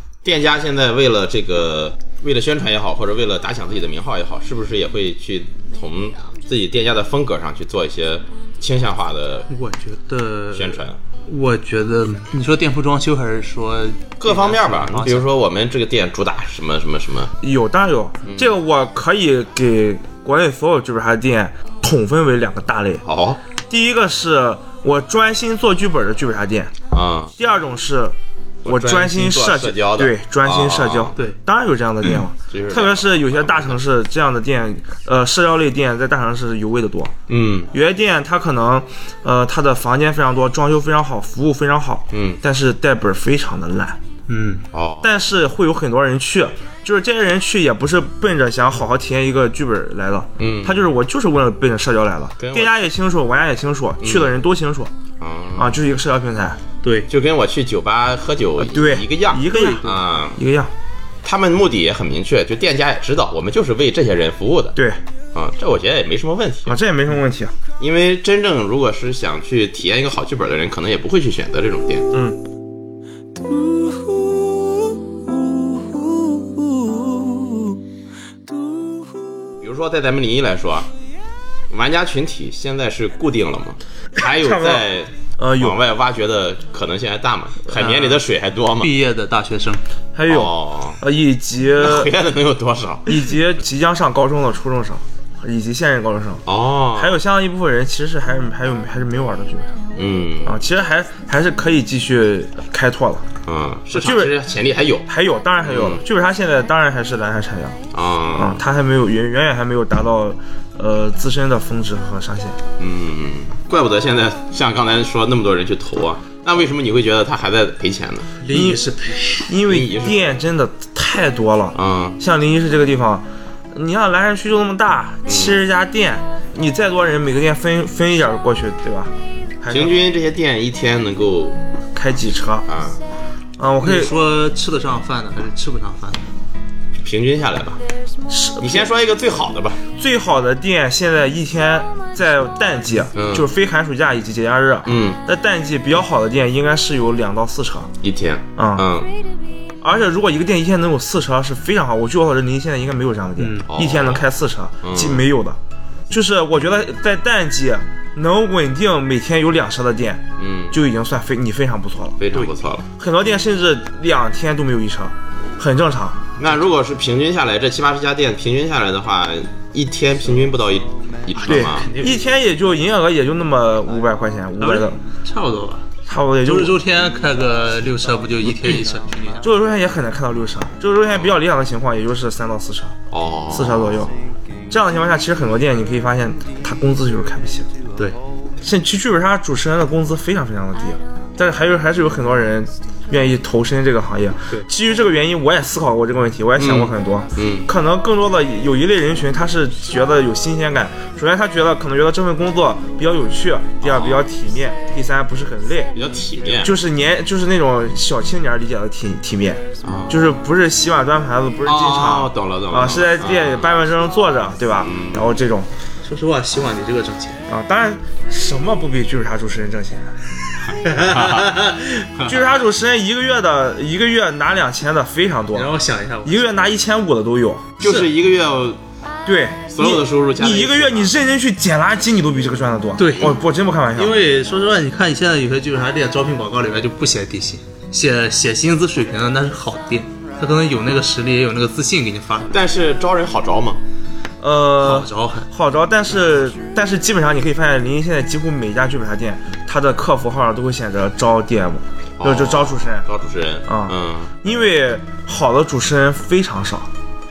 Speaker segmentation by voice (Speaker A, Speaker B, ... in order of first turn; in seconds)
Speaker A: 0.2-9.5, 10.5-11.0, 14.2-17.3, 18.2-18.6, 23.0-23.4, 26.9-27.4, 28.6-31.1, 32.5-33.8, 37.3-37.7, 42.1-42.4, 44.7-45.1, 50.4-50.8, 52.4-52.7, 54.0-54.3, 55.2-55.8, 57.1-60.4, 61.2-64.8, 65.3-66.8, 67.8-72.1, 79.6-80.9, 81.7-88.9, 90.3-91.0, 91.8-93.2, 96.5-97.2, 99.9-100.6, 103.5-105.1, 105.6-106.0, 107.9-108.6, 112.8-118.3, 119.6-120.2, 121.7-122.2, 125.3-125.6, 129.7-131.6, 132.7-133.0, 137.0-137.8, 138.6-139.8, 143.1-143.5, 144.8-145.2, 148.0-149.1, 153.7-154.3, 154.8-155.2, 160.4-160.8, 162.2-162.8, 166.4-171.9, 181.1-181.4, 183.1-184.1, 196.6-197.7, 203.8-204.2, 205.9-206.7, 209.8-210.3, 211.6-213.8, 214.8-215.3, 220.9-221.5, 222.2-222.4, 227.8-228.8, 229.7-231.2, 242.5-243.8, 252.2-254.3
Speaker B: 9.5-15.3, 44.3-44.6, 56.8-57.1, 87.8-88.2, 88.8-89.8, 118.4-119.5, 133.8-136.3, 153.4-153.7, 171.4-172.2, 174.6-175.9, 176.4-179.5, 216.0-217.4, 220.7-222.1, 225.5-226.6, 233.0-233.4, 233.9-242.6, 244.8-245.5
Speaker C: 17.4-23.0, 23.7-26.7, 27.4-37.1, 37.7-44.0, 45.0-54.9, 55.5-56.6, 58.6-60.7, 64.8-65.0, 66.7-67.5, 72.1-72.4, 84.2-84.8, 85.4-85.8, 90.1-92.1, 93.0-96.4, 96.9-99.8, 100.4-103.2, 103.9-104.3, 105.1-107.8, 108.3-112.6, 118.5-118.8, 119.5-130.0, 131.9-132.7, 133.6-134.1, 138.3-138.9, 139.9-147.9, 148.6-148.9, 149.8-155.6, 156.1-162.2, 163.0-166.3, 171.5-175.0, 176.1-176.8, 179.4-183.0, 183.5-184.2, 184.7-187.7, 188.6-205.9, 206.6-215.7, 217.5-220.2, 222.2-225.7, 226.2-227.8, 229.2-234.2, 244.4-253.1, 253.7-256.9